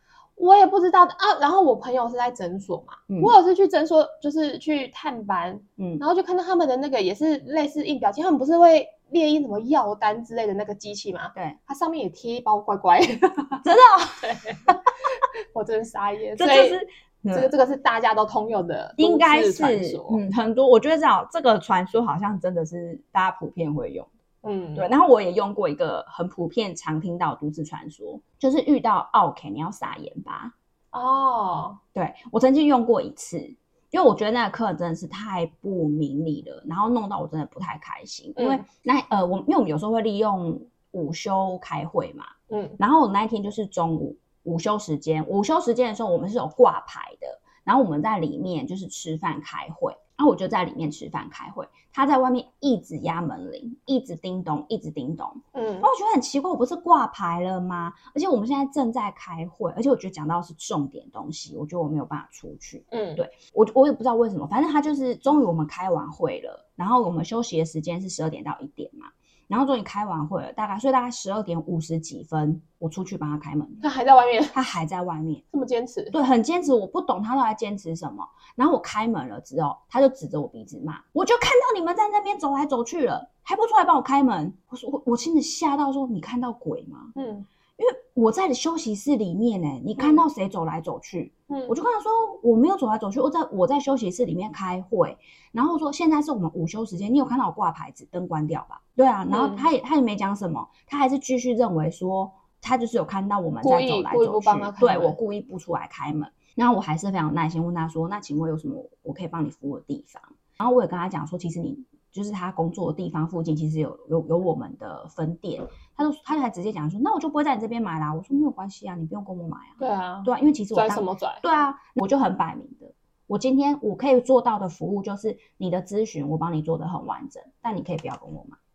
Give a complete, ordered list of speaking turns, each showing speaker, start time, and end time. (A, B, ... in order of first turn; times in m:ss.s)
0:00.4-0:13.6 A
0:05.8-0:06.0 B
0:13.6-0:14.7 B
0:14.2-0:14.7 A
0:15.5-0:16.8 A
0:16.4-0:17.5 B
0:17.3-0:20.2 A
0:19.0-0:24.1 B
0:24.4-0:24.9 A
0:24.7-0:30.5 B
0:30.9-0:31.8 A
0:31.9-1:13.8 B
0:38.4-0:38.6 A
0:42.5-0:42.8 A
0:55.5-0:55.9 A
1:02.9-1:03.2 A
1:13.8-1:14.5 A
1:14.5-1:15.4 B
1:15.5-1:16.1 A
1:16.1-1:27.1 B
1:27.1-1:27.5 A
1:27.8-2:08.6 B
1:30.0-1:30.2 A
1:39.3-1:39.6 A
1:43.6-1:45.2 A
1:59.8-2:01.4 A